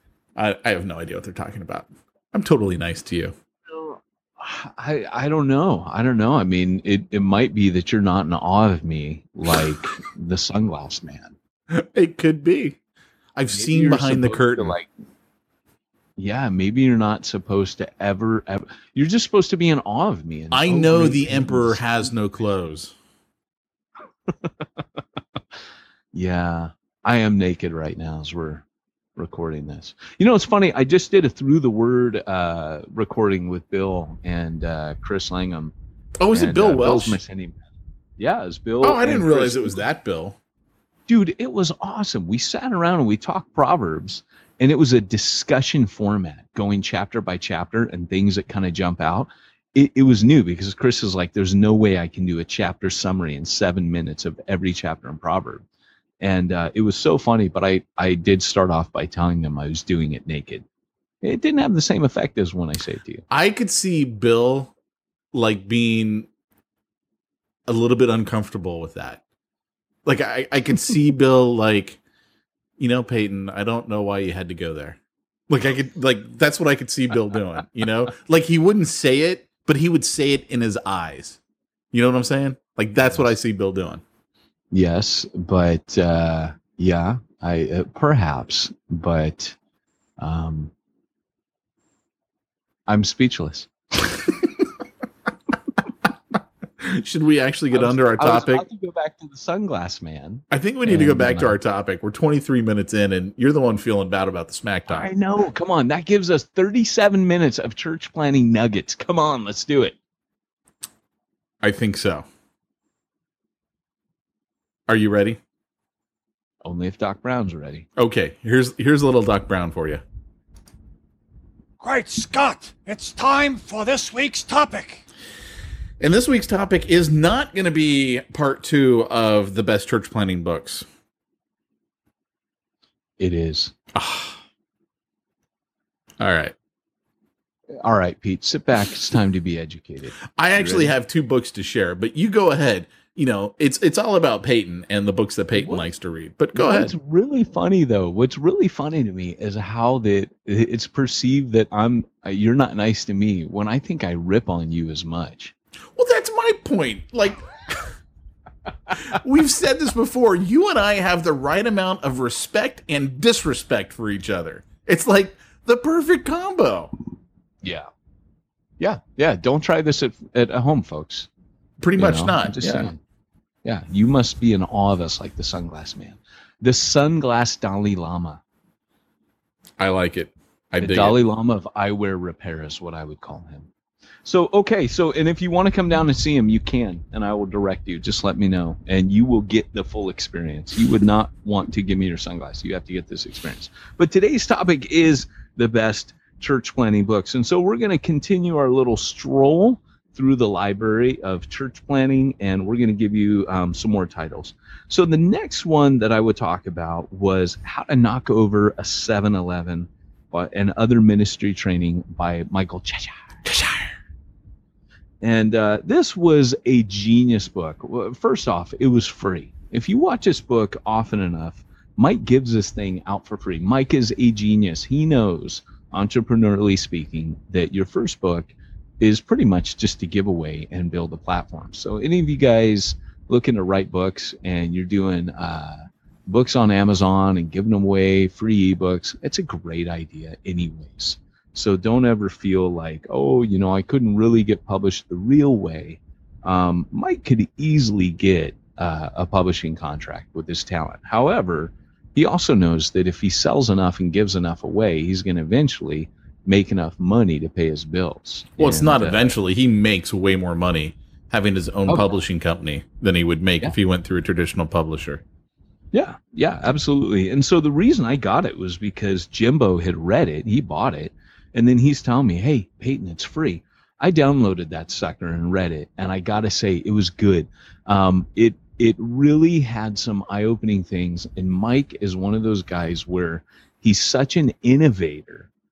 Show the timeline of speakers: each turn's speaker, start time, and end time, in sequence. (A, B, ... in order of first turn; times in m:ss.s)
0:00.4-0:03.3 A
0:03.7-0:11.4 B
0:11.7-0:12.8 A
0:13.4-0:14.8 A
0:13.5-0:14.9 B
0:16.2-0:22.1 B
0:20.5-0:22.9 A
0:26.1-0:28.6 B
0:29.2-0:35.7 B
0:36.2-0:37.2 A
0:36.3-0:37.6 B
0:38.2-0:39.8 B
0:38.8-0:40.4 A
0:41.1-0:55.6 B
0:56.2-1:00.6 B
1:01.2-1:03.2 B
1:03.3-1:04.7 A
1:05.3-1:06.3 A
1:07.7-1:09.2 A
1:10.1-1:12.0 A
1:12.8-1:15.0 A
1:15.5-1:21.4 A
1:21.9-1:24.0 A
1:24.7-1:29.6 B
1:30.2-1:30.7 B
1:32.9-1:34.3 B
1:36.8-1:38.6 A
1:37.7-1:41.6 B
1:40.5-1:45.1 A
1:44.9-1:50.0 B
1:51.6-1:52.3 A
1:54.9-1:55.4 A
1:56.6-1:57.9 B
1:58.0-2:00.0 A
2:01.8-2:05.0 C
2:06.0-2:10.9 A
2:13.2-2:13.8 B
2:14.0-2:14.4 A
2:16.2-2:16.5 A
2:17.8-2:20.9 B
2:20.4-2:26.9 A
2:25.6-2:25.9 B
2:26.5-2:35.5 B
2:36.0-2:37.9 A
2:39.1-2:46.9 A
2:47.6-2:47.9 B
2:48.8-2:51.3 B
2:51.8-2:52.9 A
2:52.0-2:53.0 B
2:53.6-2:58.4 B
2:59.8-3:01.2 A
3:00.8-3:03.7 B
3:04.2-3:33.3 B
3:35.2-4:19.3 B
4:18.6-4:25.2 A
4:21.9-4:22.2 B
4:25.9-4:45.5 B